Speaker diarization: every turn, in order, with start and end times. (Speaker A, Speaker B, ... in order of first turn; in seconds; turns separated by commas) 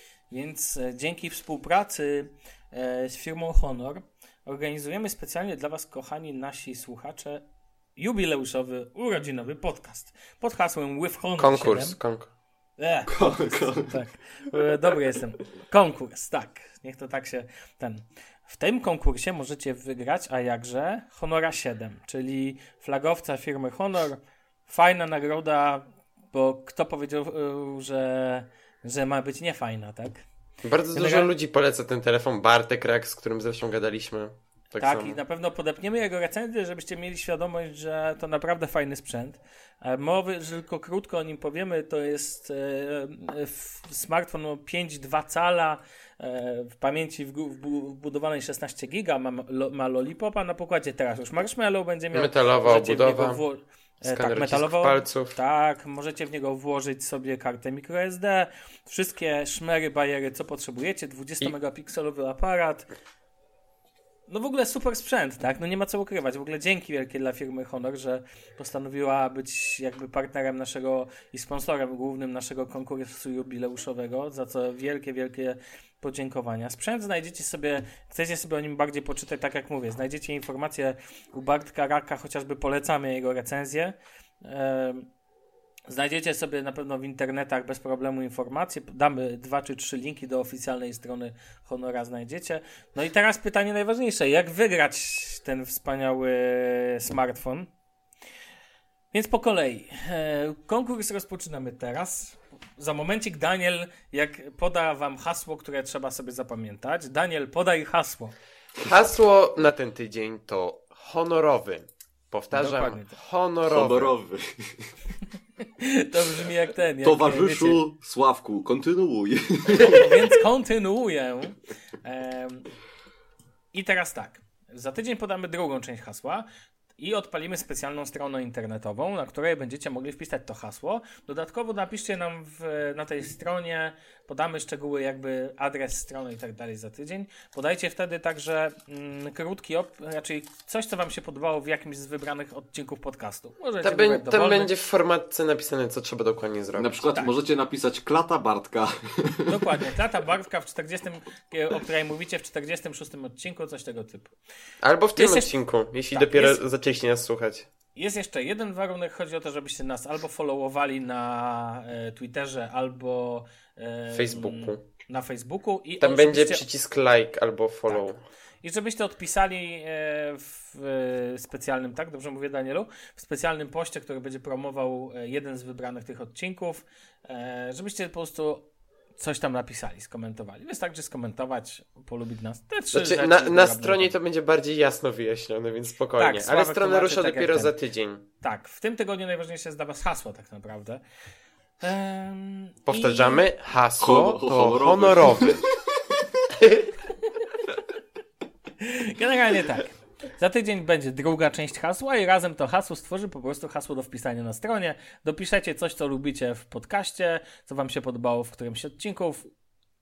Speaker A: 0.3-7.4, Speaker A: 8.0-12.0, Speaker B: 11.4-12.3, Speaker A: 12.8-30.2, Speaker C: 13.1-14.0, Speaker B: 30.6-35.2, Speaker A: 30.9-31.3, Speaker A: 34.8-62.9, Speaker B: 52.1-53.4, Speaker B: 54.0-55.3, Speaker A: 64.3-85.1, Speaker A: 85.9-97.7, Speaker A: 99.1-108.3, Speaker B: 108.8-114.1, Speaker A: 112.5-113.2, Speaker C: 113.7-115.0, Speaker A: 115.8-117.8, Speaker C: 117.0-120.1, Speaker A: 119.7-122.7, Speaker A: 123.7-126.5, Speaker A: 127.0-144.7, Speaker B: 143.8-146.9, Speaker C: 146.8-149.7, Speaker A: 149.5-154.3, Speaker B: 154.8-157.7, Speaker A: 155.2-155.5, Speaker A: 156.1-156.6, Speaker A: 157.9-166.6, Speaker B: 164.1-164.8, Speaker B: 166.0-168.2, Speaker A: 167.9-184.1, Speaker B: 182.9-188.2, Speaker A: 186.2-187.7, Speaker A: 188.4-191.0, Speaker A: 191.8-193.4, Speaker B: 192.9-195.6, Speaker C: 194.0-195.6, Speaker B: 196.6-196.9, Speaker A: 198.8-209.5